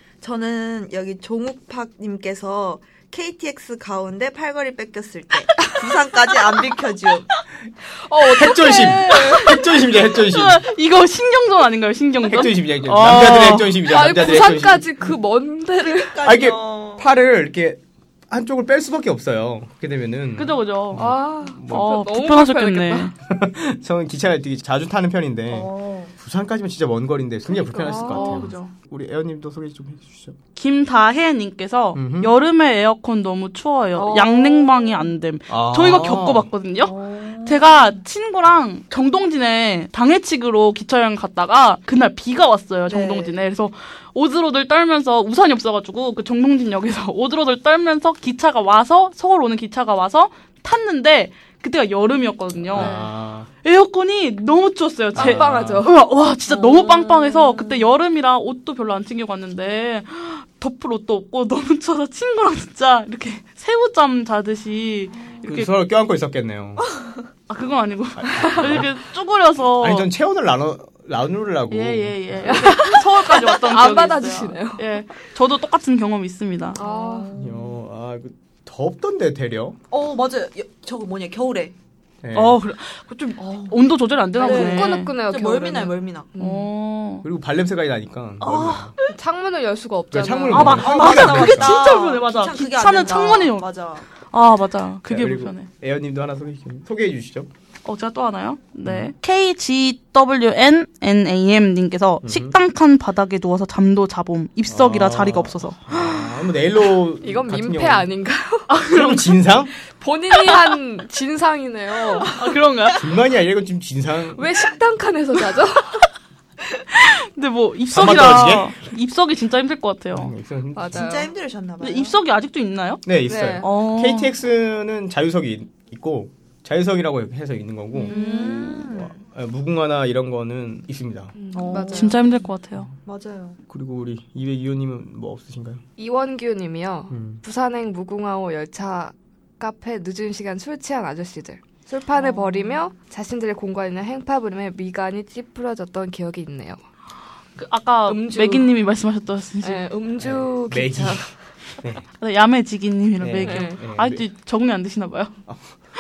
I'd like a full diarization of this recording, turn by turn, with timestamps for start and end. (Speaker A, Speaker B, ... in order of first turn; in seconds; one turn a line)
Speaker A: 0.2-7.3
Speaker B: 8.0-9.6
Speaker C: 8.3-10.6
Speaker D: 9.1-13.8
Speaker C: 12.2-14.9
Speaker B: 13.8-16.2
Speaker A: 15.8-17.1
Speaker C: 16.2-21.9
Speaker D: 20.4-21.0
Speaker B: 20.9-23.1
Speaker D: 21.7-23.1
Speaker C: 23.3-30.4
Speaker A: 25.5-26.1
Speaker B: 27.5-28.5
Speaker D: 28.0-28.7
Speaker D: 30.6-53.0
Speaker C: 31.9-32.3
Speaker A: 34.0-35.1
Speaker C: 35.5-36.5
Speaker A: 36.8-38.0
Speaker A: 42.9-43.3
Speaker C: 52.7-53.5
Speaker B: 52.7-53.1
Speaker D: 53.6-65.7
Speaker C: 55.1-55.9
Speaker B: 55.1-55.9
Speaker A: 56.5-57.8
Speaker C: 65.5-66.8
Speaker D: 67.5-70.1
Speaker C: 68.2-68.9
Speaker C: 69.8-72.6
Speaker D: 71.7-76.8
Speaker B: 72.4-75.0
Speaker B: 76.7-77.3
Speaker A: 76.8-77.7
Speaker C: 77.3-79.8
Speaker A: 79.9-81.7
Speaker C: 82.2-82.6
Speaker D: 82.3-85.1
Speaker A: 83.4-83.8
Speaker B: 84.4-86.7
Speaker A: 84.4-86.3
Speaker D: 86.4-87.2
Speaker C: 87.2-88.9
Speaker D: 88.4-88.9
Speaker B: 89.1-90.8
Speaker C: 90.1-91.8
Speaker D: 90.5-93.7
Speaker A: 90.6-94.0
Speaker D: 94.3-95.7
Speaker C: 95.1-97.5
Speaker D: 97.8-106.3
Speaker C: 98.8-99.1
Speaker C: 102.2-102.5
Speaker C: 104.7-108.1
Speaker B: 107.2-108.8
Speaker D: 108.7-109.4
Speaker C: 108.9-109.7
Speaker B: 109.8-112.4
Speaker D: 112.2-113.0
Speaker C: 113.0-114.5
Speaker B: 114.3-116.0
Speaker D: 116.9-120.3
Speaker C: 117.9-118.8
Speaker C: 120.1-121.1
Speaker B: 120.7-121.3
Speaker A: 120.9-122.2
Speaker D: 121.8-123.0
Speaker C: 123.0-128.1
Speaker B: 123.3-123.7
Speaker D: 123.6-124.3
Speaker D: 127.9-128.9
Speaker A: 128.1-129.1
Speaker C: 128.9-131.4
Speaker B: 131.3-132.2
Speaker A: 131.5-132.4
Speaker D: 131.6-132.9
Speaker A: 133.1-133.6
Speaker C: 133.7-135.8
Speaker B: 136.0-146.8
Speaker C: 137.1-137.4
Speaker D: 147.6-149.9
Speaker B: 148.1-148.7
Speaker B: 149.6-151.3
Speaker C: 150.2-152.1
Speaker D: 152.2-155.4
Speaker C: 153.2-154.3
Speaker B: 153.4-153.8